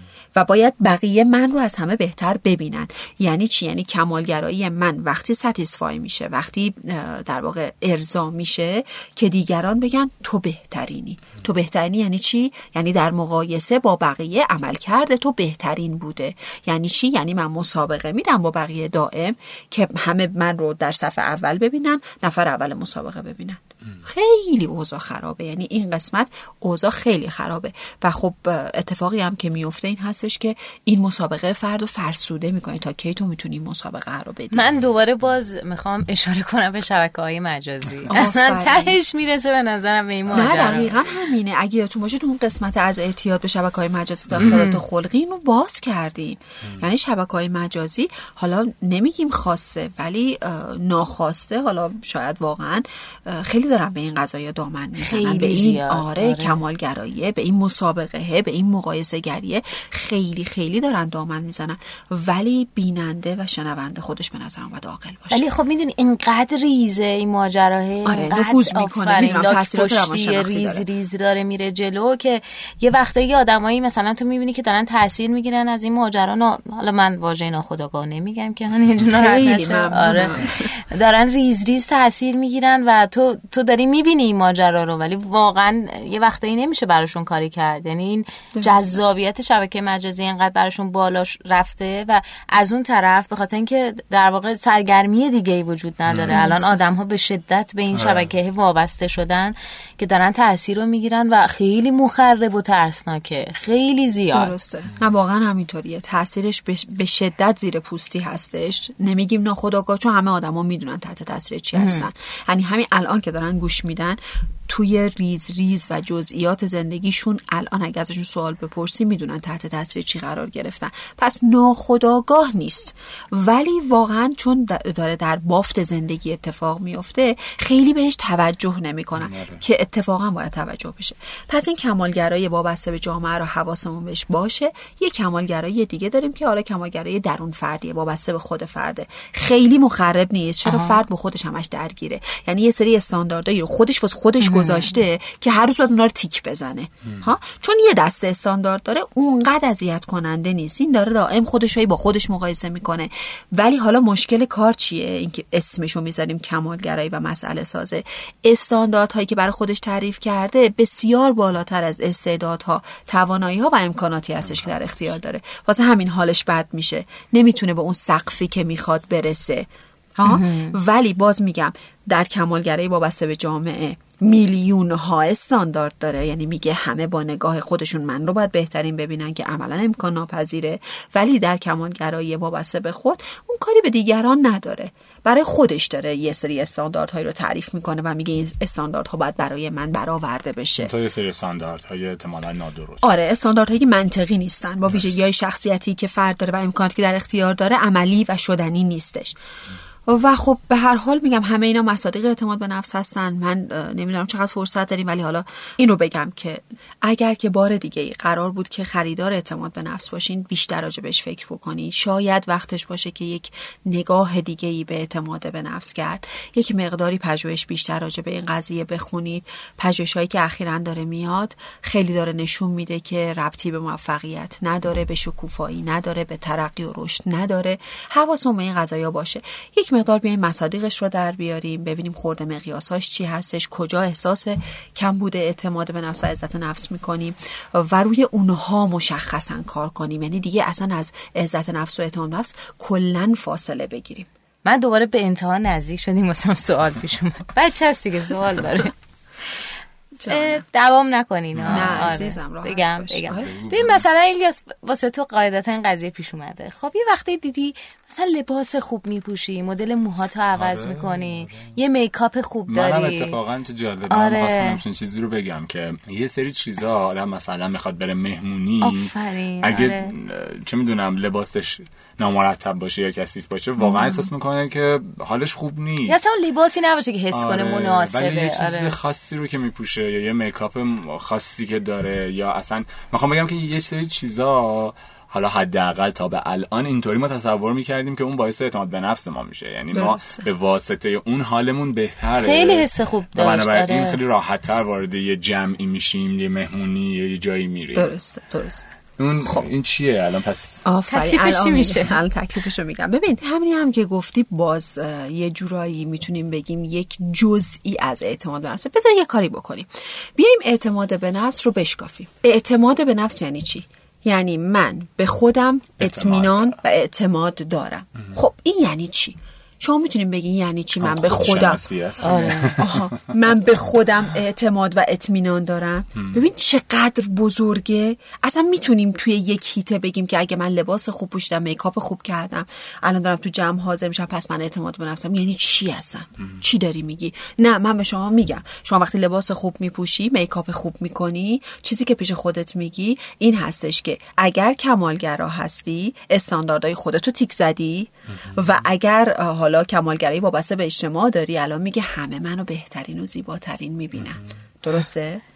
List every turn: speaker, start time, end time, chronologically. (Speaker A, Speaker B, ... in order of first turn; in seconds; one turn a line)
Speaker A: 0.3-34.7
Speaker B: 34.5-41.1
Speaker A: 38.1-39.0
Speaker C: 40.3-40.7
Speaker A: 40.3-65.4
Speaker B: 44.4-44.8
Speaker B: 55.0-56.6
Speaker B: 65.3-104.5
Speaker A: 68.0-70.8
Speaker A: 79.1-80.7
Speaker A: 88.5-89.0
Speaker C: 96.1-96.4
Speaker A: 96.3-96.8
Speaker C: 97.9-98.3
Speaker A: 104.3-190.9
Speaker B: 111.7-112.1
Speaker C: 129.2-129.6
Speaker B: 140.6-141.0
Speaker B: 144.4-144.9
Speaker B: 170.2-170.8
Speaker C: 190.8-193.1
Speaker A: 193.0-199.4
Speaker A: 200.1-244.3
Speaker B: 244.6-248.9
Speaker A: 250.2-250.7
Speaker B: 250.2-263.4
Speaker C: 251.5-252.2
Speaker A: 251.7-253.5
Speaker C: 253.3-254.1
Speaker C: 260.5-261.8
Speaker C: 262.7-276.2
Speaker B: 264.1-264.8
Speaker B: 268.8-270.1
Speaker B: 276.1-278.9
Speaker C: 277.3-298.1
Speaker A: 289.9-290.5
Speaker B: 292.4-294.2
Speaker A: 297.9-298.9
Speaker C: 299.2-300.8
Speaker A: 300.8-321.8
Speaker B: 301.1-302.2
Speaker C: 316.0-316.8
Speaker C: 321.0-323.1
Speaker B: 322.2-322.8
Speaker A: 322.8-355.4
Speaker C: 326.1-326.4